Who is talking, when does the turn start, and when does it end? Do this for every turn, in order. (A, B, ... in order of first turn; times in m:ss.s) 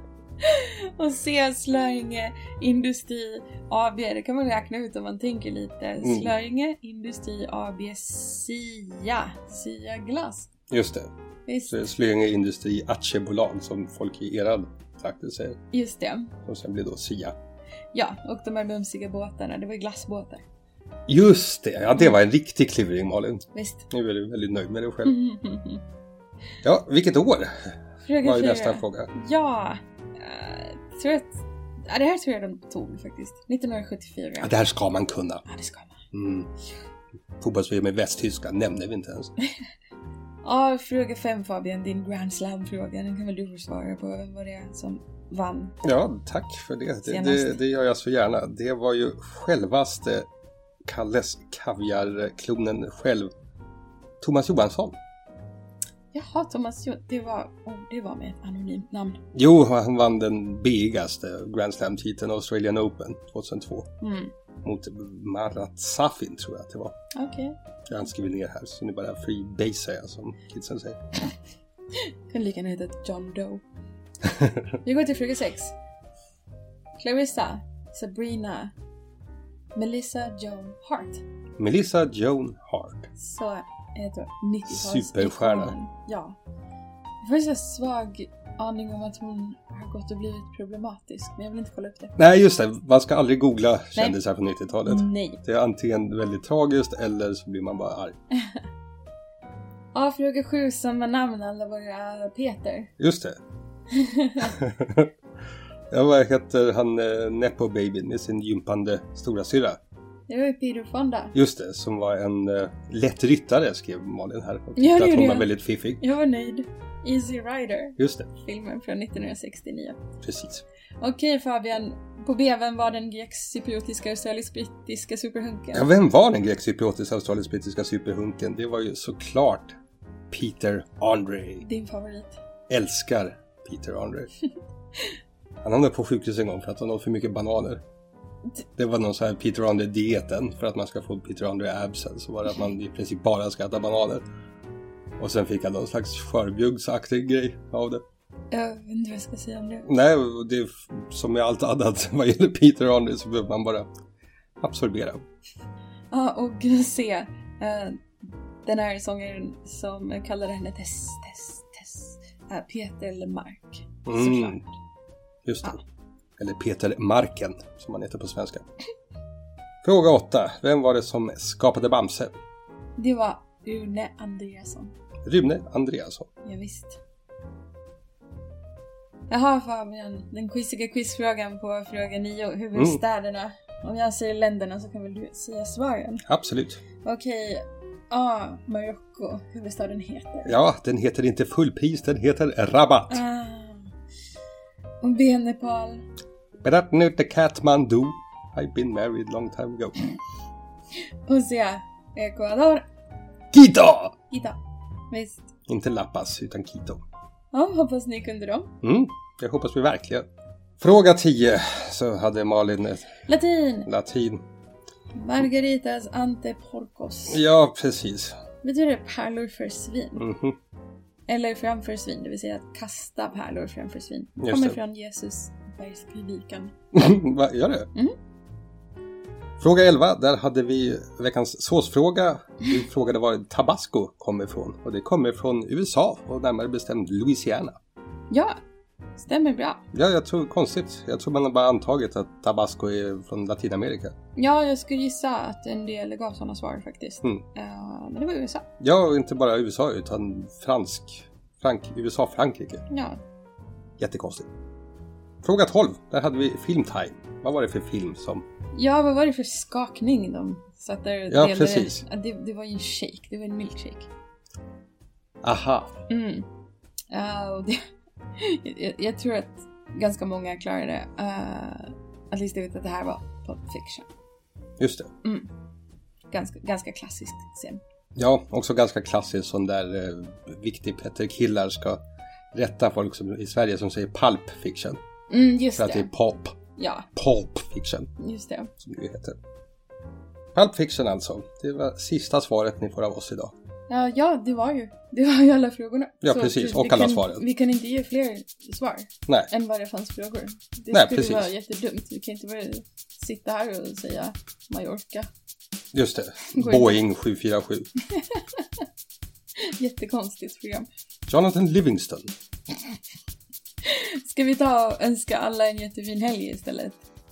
0:00.4-0:10.5 A
0:06.0-0:06.3 B
0:10.7-0:11.1 B
0:11.5-0:11.8 A
0:11.7-0:15.6 B
0:15.7-0:16.3 A
0:16.4-0:17.4 B
0:17.9-0:20.4 A
0:21.1-0:25.2 B
0:23.5-0:23.9 A
0:25.0-0:25.8 A
0:26.6-0:29.1 B
0:28.0-0:34.5 A
0:34.4-0:35.5 B
0:35.5-0:36.0 A
0:36.1-0:36.5 B
0:37.4-0:39.3 B
0:40.4-0:45.8 A
0:45.8-0:50.3 B
0:47.0-0:47.6 A
0:50.8-0:53.3 B
0:54.2-0:55.0 B
0:56.1-0:59.2 A
0:59.3-1:03.9 B
1:04.0-1:04.3 A
1:04.6-1:07.0 B
1:07.1-1:07.6 A
1:07.9-1:11.2 B
1:12.3-1:13.6 A
1:14.8-1:15.7 A
1:17.0-1:18.7 A
1:19.8-1:21.2 A
1:21.6-1:23.1 B
1:23.2-1:26.4 A
1:24.7-1:25.8 B
1:27.2-1:32.2 A
1:32.2-1:38.2 B
1:34.8-1:35.4 A
1:39.9-1:42.9 A
1:43.0-1:43.4 B
1:43.9-1:44.6 A
1:44.4-1:45.1 B
1:45.9-1:49.8 B
1:50.3-1:51.4 A
1:51.4-1:56.0 B
1:54.8-2:00.0 A
1:58.0-1:58.3 B
2:00.2-2:00.6 B
2:01.0-2:05.9 A
2:05.7-2:09.8 B
2:10.3-2:11.6 B
2:11.6-2:12.4 A
2:12.7-2:14.3 B
2:15.6-2:17.8 B
2:18.8-2:24.2 B
2:25.2-2:28.0 B
2:28.5-2:29.9 A
2:29.8-2:33.9 B
2:34.6-2:35.2 B
2:36.1-2:38.0 A
2:38.6-2:44.7 A
2:44.1-2:44.6 B
2:45.4-2:45.8 B
2:46.4-2:48.6 B
2:49.8-2:52.3 B
2:53.0-2:54.9 A
2:55.2-2:56.3 B
2:56.4-2:57.0 A
2:59.3-3:06.2 A
3:02.8-3:03.0 B
3:06.2-3:06.8 B
3:07.0-3:10.6 A
3:10.4-3:13.2 B
3:13.1-3:13.9 A
3:15.0-3:16.0 A
3:16.6-3:20.1 B
3:21.2-3:22.8 A
3:23.5-3:24.2 B
3:24.3-3:24.6 A
3:25.1-3:25.5 A
3:25.7-3:27.0 B
3:27.5-3:28.7 A
3:28.8-3:30.3 B
3:30.8-3:33.1 B
3:33.3-3:33.9 A
3:33.9-3:34.4 B
3:35.2-3:37.4 A
3:37.3-3:38.4 B
3:38.6-3:40.3 A
3:40.2-3:40.6 B
3:41.3-3:46.7 A
3:44.4-3:44.8 B
3:46.9-3:47.9 B
3:49.6-3:57.8 B
3:58.3-3:58.6 A
3:59.2-3:59.8 A
3:59.9-4:04.2 B
4:04.4-4:08.7 A
4:08.8-4:12.8 B
4:12.9-4:13.2 A
4:14.0-4:14.5 B
4:15.4-4:18.4 B
4:18.8-4:24.1 A
4:21.3-4:22.0 B
4:25.4-4:26.0 B
4:26.1-4:26.5 A
4:27.1-4:27.8 A
4:28.4-4:34.1 A
4:34.8-4:35.1 B
4:35.2-4:35.5 A
4:36.3-4:37.8 A
4:38.2-4:42.0 B
4:42.5-4:45.0 B
4:45.3-4:46.1 A
4:45.8-4:46.6 B
4:46.8-4:47.1 A
4:47.2-4:48.1 B
4:48.2-4:48.7 A
4:48.8-4:49.4 B
4:50.6-4:53.5 B
4:53.9-5:05.3 A
4:56.2-4:57.4 B
5:00.9-5:01.5 B
5:05.9-5:07.9 B
5:06.5-5:07.0 A
5:08.1-5:08.6 A
5:09.6-5:10.9 A
5:11.3-5:12.3 B
5:13.8-5:17.0 A